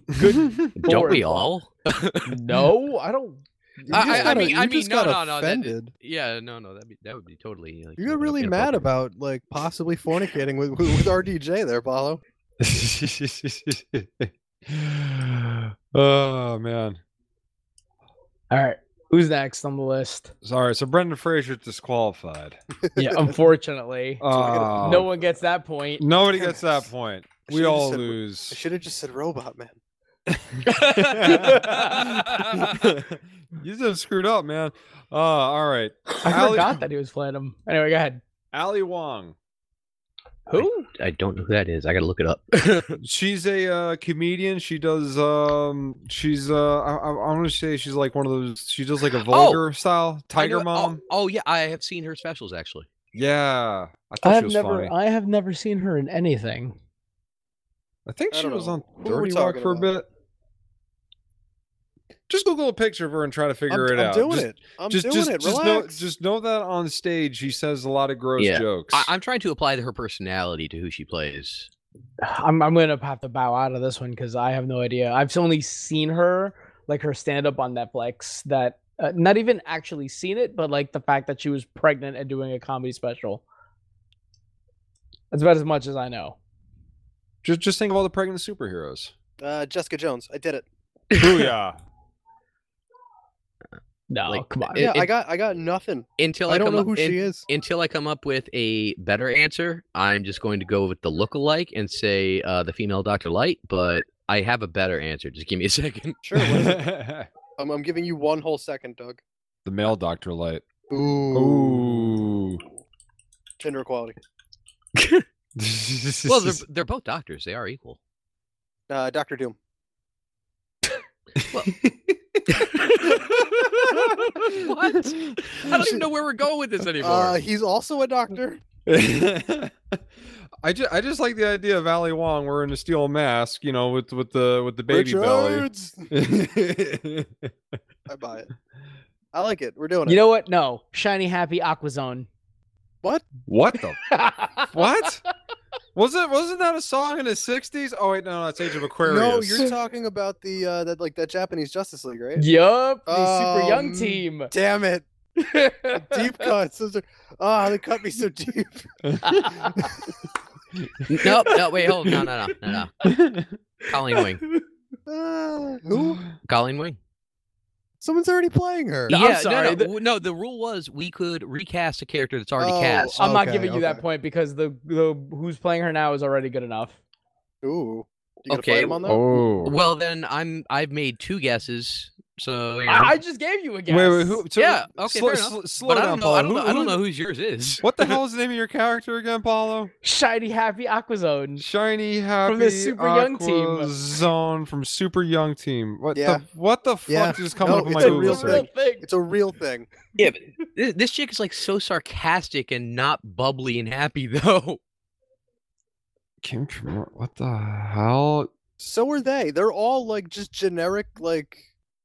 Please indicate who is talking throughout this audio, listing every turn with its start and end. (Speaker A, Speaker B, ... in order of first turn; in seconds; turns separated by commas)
Speaker A: 0.1-0.7, Speaker B: 0.1-1.5, Speaker C: 0.7-2.3, Speaker B: 2.2-4.5, Speaker D: 3.9-5.9, Speaker C: 3.9-8.9, Speaker D: 8.0-12.2, Speaker A: 12.6-17.0, Speaker B: 18.5-20.3, Speaker A: 20.4-22.6, Speaker D: 22.8-23.4, Speaker B: 23.0-24.2, Speaker A: 24.2-25.1, Speaker D: 24.3-25.1, Speaker B: 24.8-26.0, Speaker A: 26.0-28.6, Speaker D: 26.4-26.8, Speaker D: 27.5-29.8, Speaker A: 30.3-36.8, Speaker C: 30.7-32.7, Speaker B: 31.2-32.0, Speaker B: 36.2-38.2, Speaker A: 38.5-39.3, Speaker B: 40.5-40.9, Speaker C: 40.5-43.0, Speaker A: 43.0-51.0, Speaker C: 49.3-49.6, Speaker C: 50.4-52.9, Speaker A: 53.1-54.9, Speaker B: 54.2-56.8, Speaker A: 58.0-60.1, Speaker D: 58.3-59.9, Speaker A: 62.3-69.1, Speaker D: 63.7-66.0, Speaker C: 68.4-71.7, Speaker B: 72.2-83.4, Speaker B: 85.3-86.4, Speaker A: 87.4-89.1, Speaker D: 89.4-90.7, Speaker A: 91.1-91.8, Speaker B: 94.1-94.9, Speaker C: 94.3-95.1, Speaker D: 94.8-97.4, Speaker C: 96.2-106.2, Speaker D: 106.2-106.9, Speaker A: 106.3-107.3, Speaker D: 107.6-109.2, Speaker A: 109.6-110.6, Speaker D: 110.9-112.2, Speaker A: 111.3-112.6, Speaker D: 113.6-114.2, Speaker A: 115.5-116.6, Speaker C: 116.2-118.0, Speaker D: 118.9-119.5, Speaker A: 121.4-125.8, Speaker C: 124.4-127.4, Speaker D: 125.7-126.0, Speaker D: 127.0-128.6, Speaker A: 128.8-130.0, Speaker A: 130.6-137.5, Speaker D: 134.9-136.1, Speaker D: 138.1-138.5, Speaker D: 139.3-140.2, Speaker B: 140.1-142.3, Speaker A: 143.4-144.0, Speaker B: 144.1-144.7, Speaker A: 144.7-145.2, Speaker A: 145.9-149.7, Speaker D: 149.0-152.4, Speaker B: 152.3-154.5, Speaker D: 153.1-155.1, Speaker B: 155.4-156.5, Speaker D: 155.9-158.9, Speaker A: 159.1-159.6, Speaker B: 159.2-160.0, Speaker C: 161.1-162.9, Speaker B: 161.2-162.1, Speaker A: 163.0-163.6, Speaker C: 163.8-164.4, Speaker B: 164.1-164.6, Speaker D: 165.1-166.2, Speaker A: 166.0-166.3, Speaker C: 166.4-167.0, Speaker D: 168.0-169.1, Speaker B: 169.1-169.9, Speaker C: 169.1-173.2, Speaker D: 172.6-174.0, Speaker B: 173.2-177.0, Speaker D: 177.6-179.2, Speaker C: 178.5-183.1, Speaker A: 179.0-179.8, Speaker B: 182.9-184.4, Speaker A: 183.9-187.0, Speaker C: 184.6-188.2, Speaker A: 187.8-189.9, Speaker B: 190.0-191.6, Speaker A: 191.6-198.7, Speaker B: 192.4-193.9, Speaker D: 196.1-196.4, Speaker D: 197.1-199.9, Speaker B: 197.5-199.1, Speaker C: 200.2-204.8, Speaker A: 206.4-208.5, Speaker D: 208.8-211.7